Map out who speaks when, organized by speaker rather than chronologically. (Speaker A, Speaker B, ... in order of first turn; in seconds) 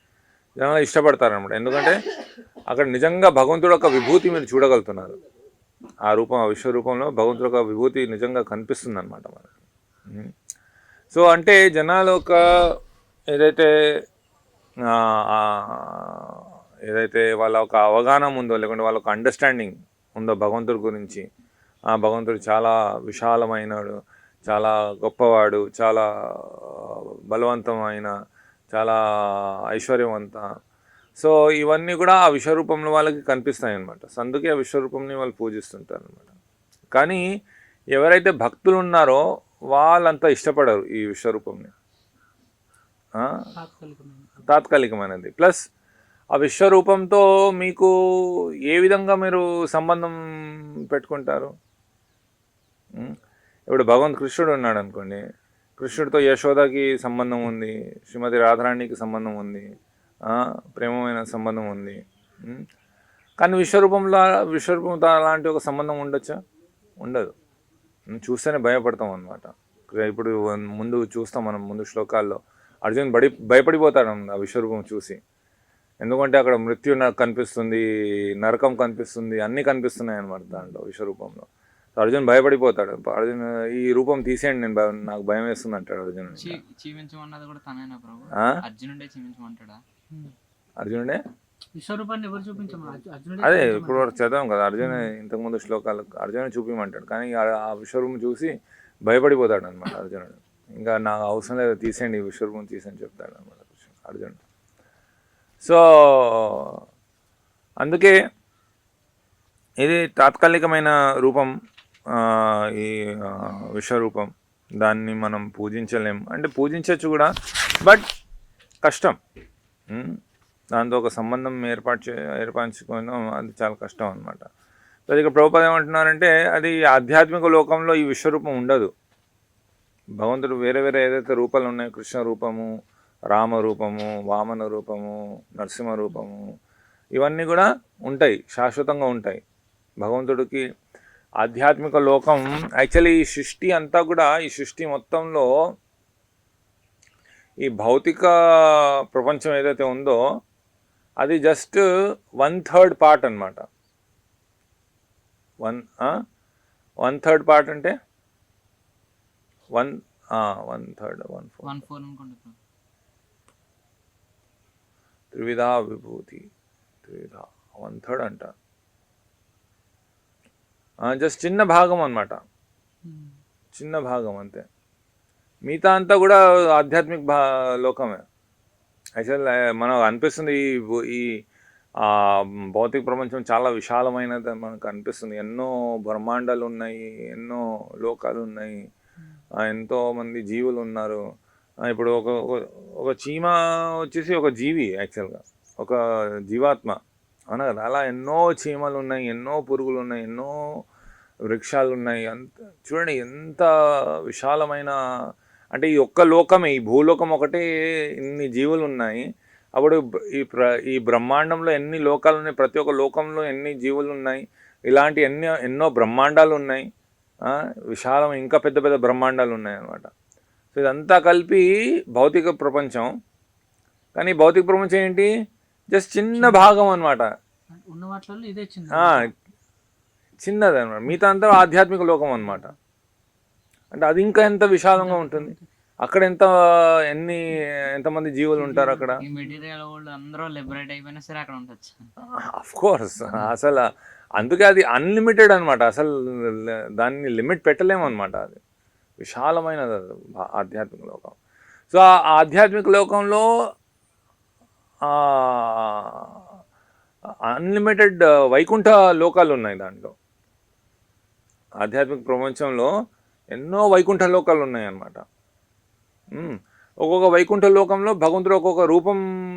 Speaker A: 0.6-2.0, 2.7-5.2, 6.1-9.6, 11.1-12.4, 13.3-13.7, 14.9-21.2, 21.9-28.1, 28.7-30.4, 31.2-36.3, 36.9-37.2, 37.9-41.7, 44.5-45.6, 46.3-51.5, 53.7-55.2, 55.8-59.6, 60.3-62.6, 63.4-66.4, 67.0-67.3, 68.1-75.2, 76.0-77.8, 78.4-86.6, 90.8-91.2, 93.4-98.5, 99.0-104.4, 105.6-106.8, 107.8-108.1, 109.8-111.5, 112.1-114.3, 114.8-118.0, 118.8-119.2, 119.9-120.2, 120.7-124.5, 125.1-128.9, 130.2-132.7, 133.3-136.4, 137.2-139.4, 140.0-140.6, 141.4-145.5, 147.6-150.2, 151.2-151.8, 152.4-153.7, 155.6-156.2, 157.0-157.9, 159.7-161.8, 165.3-166.5, 167.0-168.5, 171.0-172.4, 173.7-174.6, 175.7-178.2, 179.2-181.3, 182.0-188.8, 189.6-191.2, 191.8-197.0, 197.5-200.6, 201.5-203.7, 204.2-204.9, 205.7-207.6, 208.2-209.2, 209.8-216.9, 217.4-220.1, 220.7-223.1, 224.1-225.3, 225.9-227.3, 228.9-229.3, 230.4-232.7, 233.9-239.2, 242.3-248.6, 249.2-251.3, 251.9-253.5, 255.1-256.4, 257.5-260.1, 261.8-262.9, 263.5-265.2, 266.3-269.2
Speaker B: 43.5-44.5, 91.8-94.2, 94.8-95.1, 173.1-173.3, 226.3-226.7, 227.7-229.3, 232.4-232.7, 235.0-235.7, 238.6-239.6
Speaker C: 86.3-89.8, 161.6-162.6, 239.2-242.1